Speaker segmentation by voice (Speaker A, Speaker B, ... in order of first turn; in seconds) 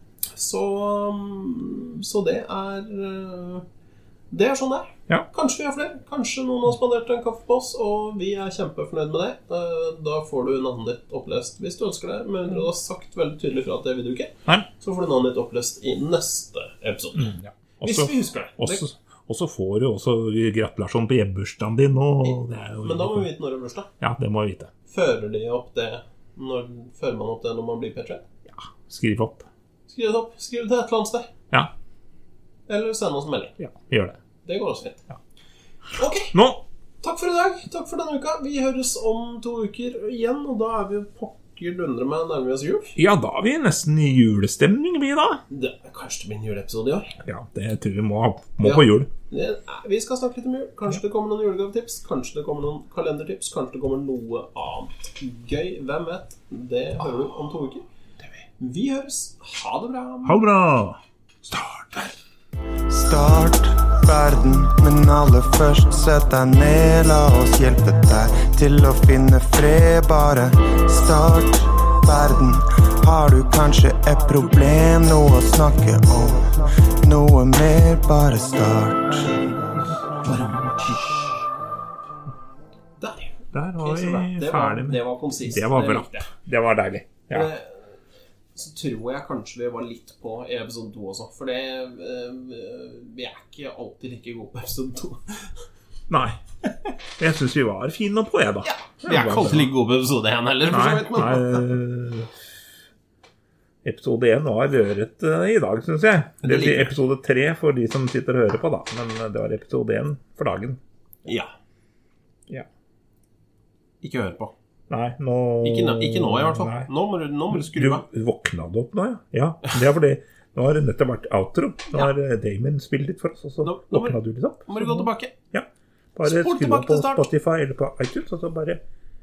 Speaker A: 0.3-3.6, 4.3-18.8, 22.2-23.9, 24.9-28.2, 29.9-31.3, 32.7-33.6, 34.4-35.0, 35.9-36.3, 37.0-42.9, 45.5-47.1, 48.6-57.9, 58.6-60.4, 83.0-86.3, 87.3-87.9, 88.5-95.6, 98.6-101.7, 106.4-106.9, 111.2-111.5, 114.0-114.5, 115.6-118.0, 123.6-125.3, 126.2-127.3
Speaker B: 17.1-23.3, 24.0-24.7, 28.5-29.5, 33.6-34.2, 36.3-36.6, 43.0-45.4, 47.2-49.1, 60.2-62.1, 83.5-87.5, 96.1-96.4, 97.2-99.7, 100.7-102.3, 103.8-110.8, 114.9-116.9, 117.5-128.8
Speaker C: 62.9-79.4, 80.2-80.7